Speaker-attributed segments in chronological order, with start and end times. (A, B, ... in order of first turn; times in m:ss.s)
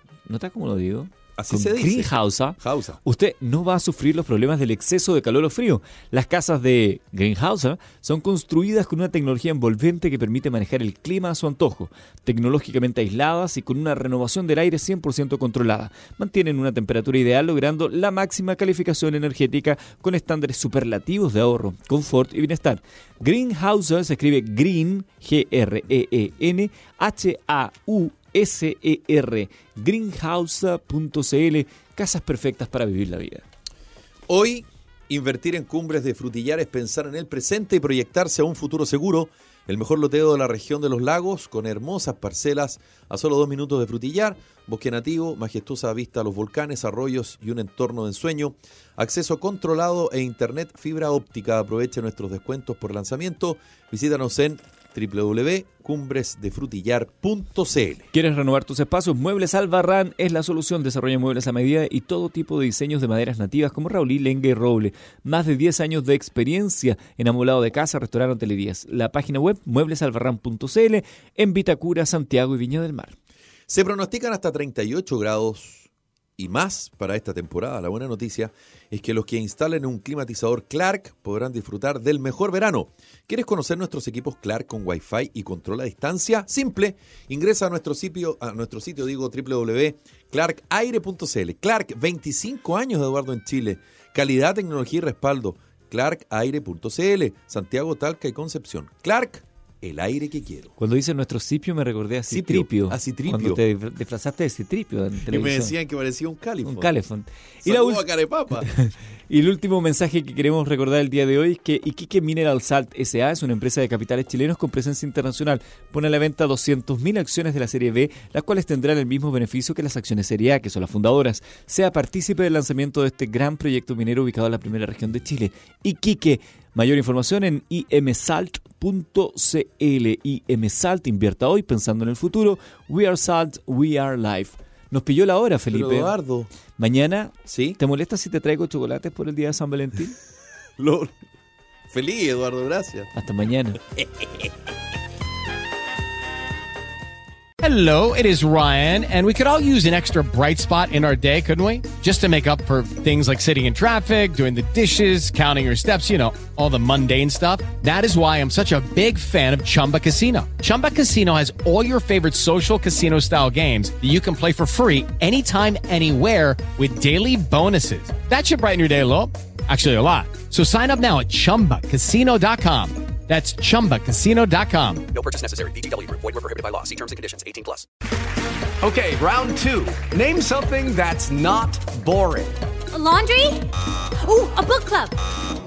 0:00.3-0:33.4 A
0:01.4-0:03.0 B
0:34.3-0:58.1 B
0:58.1-1:13.2 A
1:13.7-1:40.7 B
1:40.8-1:45.7 A
1:42.3-1:43.6 B
1:45.3-1:47.0 B
1:46.6-1:48.0 A
1:47.6-1:48.7 B
1:48.6-2:16.1 A
2:15.7-2:16.5 B
2:16.8-2:20.2 A
2:17.5-2:17.8 B
2:20.8-2:21.1 B
2:21.9-2:23.1 B
2:23.2-2:23.8 A
2:24.0-2:24.5 B
2:27.6-2:55.1 C
2:55.1-2:57.9 D
2:58.8-3:02.6 D
3:02.9-3:05.2 E